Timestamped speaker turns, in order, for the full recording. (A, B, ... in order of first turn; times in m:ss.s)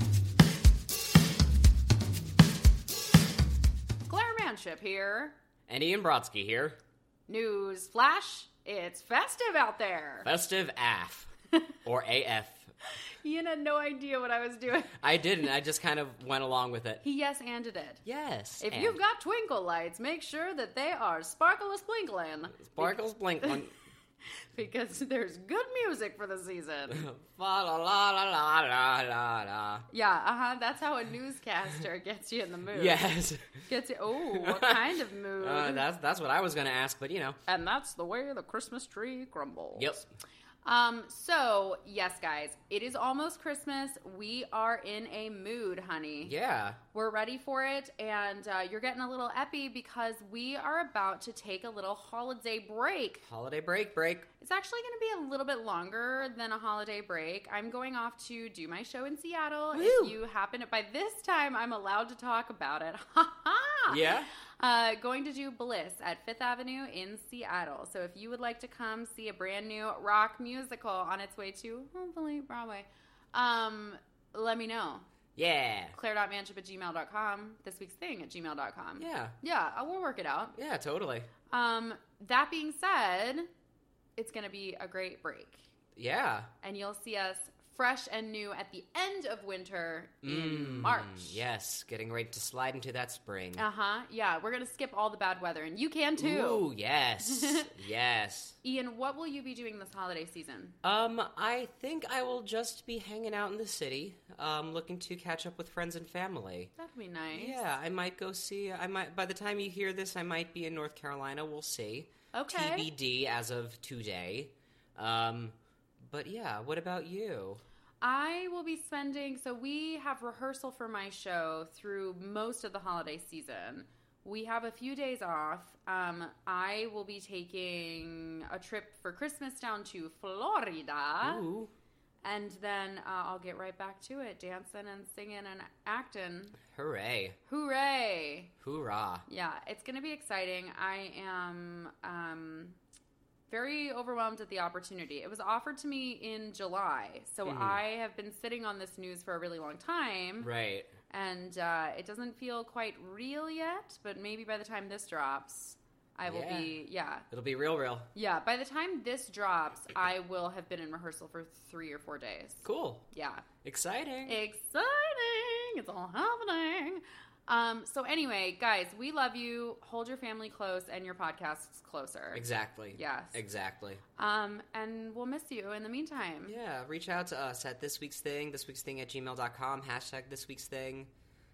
0:04.1-0:05.4 A
0:05.7-0:06.8 B
0:07.3-0:10.3 A
0:10.2-0:11.3 B
0:11.8-0:12.7 B
0:12.9-0:15.0 A
0:15.0-0:17.0 B
0:17.0-0:18.0 A
0:18.0-0:19.0 B
0:18.6-0:23.7 A
0:22.7-0:23.7 B
0:24.5-0:27.1 A
0:26.9-0:29.9 B
0:29.9-0:33.1 A
0:32.7-0:33.6 B
0:33.6-0:35.9 A
0:34.3-0:37.4 B
0:37.5-0:40.0 A
0:39.8-0:40.1 B
0:40.6-0:46.4 A
0:46.2-0:46.8 B
0:46.9-0:53.2 A
0:53.3-0:54.3 B
0:54.4-1:15.1 A
0:59.7-1:00.2 B
1:03.9-1:04.3 B
1:15.4-1:16.0 B
1:15.9-1:20.6 A
1:19.0-1:19.4 B
1:20.6-1:21.3 B
1:21.5-1:23.5 A
1:24.2-1:25.6 A
1:26.0-1:26.5 B
1:26.6-1:31.4 A
1:30.2-1:33.6 B
1:33.6-1:36.7 A
1:36.2-1:38.6 B
1:37.2-1:37.7 A
1:38.6-1:40.8 A
1:40.8-1:46.7 B
1:46.8-1:47.6 A
1:47.3-1:57.6 B
1:52.3-1:52.9 A
1:58.0-2:11.4 A
2:11.2-2:11.7 B
2:12.2-2:16.6 A
2:16.7-2:17.4 B
2:17.5-2:18.5 A
2:18.6-2:19.3 B
2:19.3-2:22.8 A
2:23.5-2:30.5 A
2:27.4-2:27.8 B
2:30.4-2:30.9 B
2:31.1-2:37.2 A
2:36.2-2:36.8 B
2:37.3-2:38.1 B
2:38.2-2:43.5 A
2:42.6-2:43.0 B
2:43.6-2:44.4 B
2:44.3-2:53.4 A
2:52.3-2:54.0 B
2:54.2-2:56.6 A
2:56.5-3:01.1 B